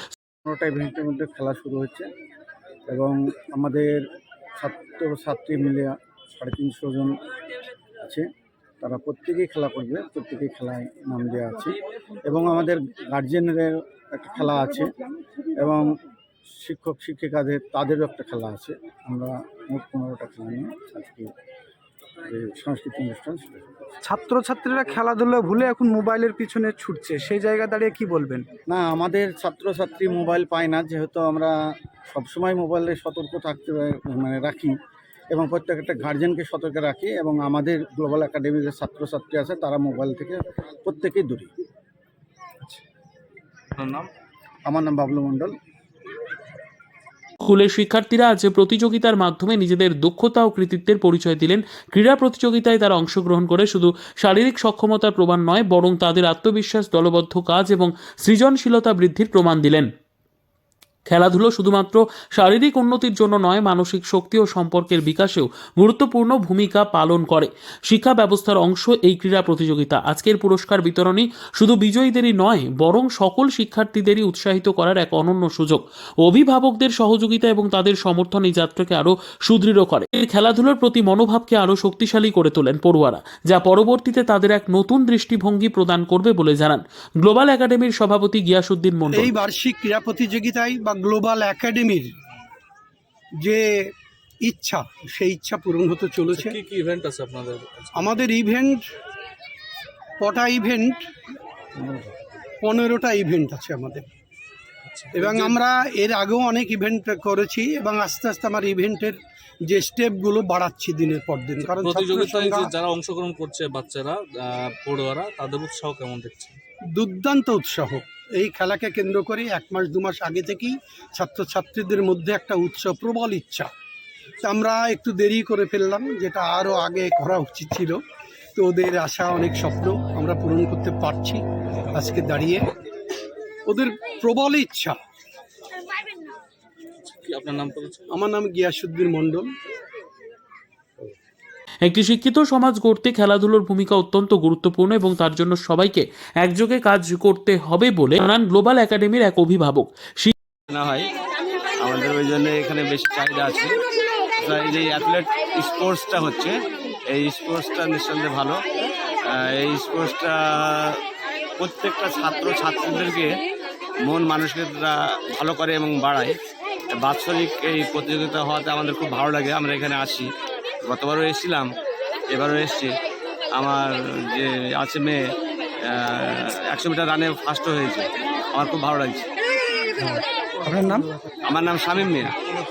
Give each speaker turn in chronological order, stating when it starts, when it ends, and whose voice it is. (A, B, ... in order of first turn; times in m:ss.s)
0:00.5-0:02.1 A
0:02.9-0:04.0 A
0:04.6-0:07.2 A
0:08.8-0:14.9 A
0:15.6-0:15.9 A
0:16.6-0:21.3 A
0:22.2-0:23.8 A
0:24.0-0:28.5 B
0:28.7-0:31.5 A
0:32.1-0:34.7 A
0:35.3-0:41.5 A
0:43.8-0:44.1 C
0:44.7-0:45.5 A
0:47.4-0:59.9 D
1:01.1-1:29.3 D
1:29.1-1:32.1 E
1:33.4-1:33.9 E
1:34.4-1:36.6 E
1:36.3-1:38.2 C
1:37.9-1:38.8 E
1:40.2-1:41.0 E
1:41.8-1:42.1 A
1:42.6-1:44.1 E
1:44.8-1:45.6 C
1:45.1-1:52.7 E
1:51.6-1:56.6 C
1:57.0-2:03.7 E
2:04.4-2:08.0 E
2:08.6-2:12.7 E
2:13.7-2:15.0 E
2:17.0-2:18.1 C
2:18.1-2:19.5 E
2:21.8-2:30.3 D
2:30.7-2:31.1 F
2:31.8-2:33.7 F
2:34.4-2:36.5 F
2:37.1-2:38.6 F
2:39.3-2:41.0 F
2:41.6-2:43.4 F
2:44.1-2:46.4 F
2:47.0-2:50.3 F
2:50.9-2:51.7 F
2:52.3-2:53.0 F
2:53.6-2:55.2 F
2:55.9-2:59.3 F
3:00.0-3:01.1 B
3:01.5-3:02.4 F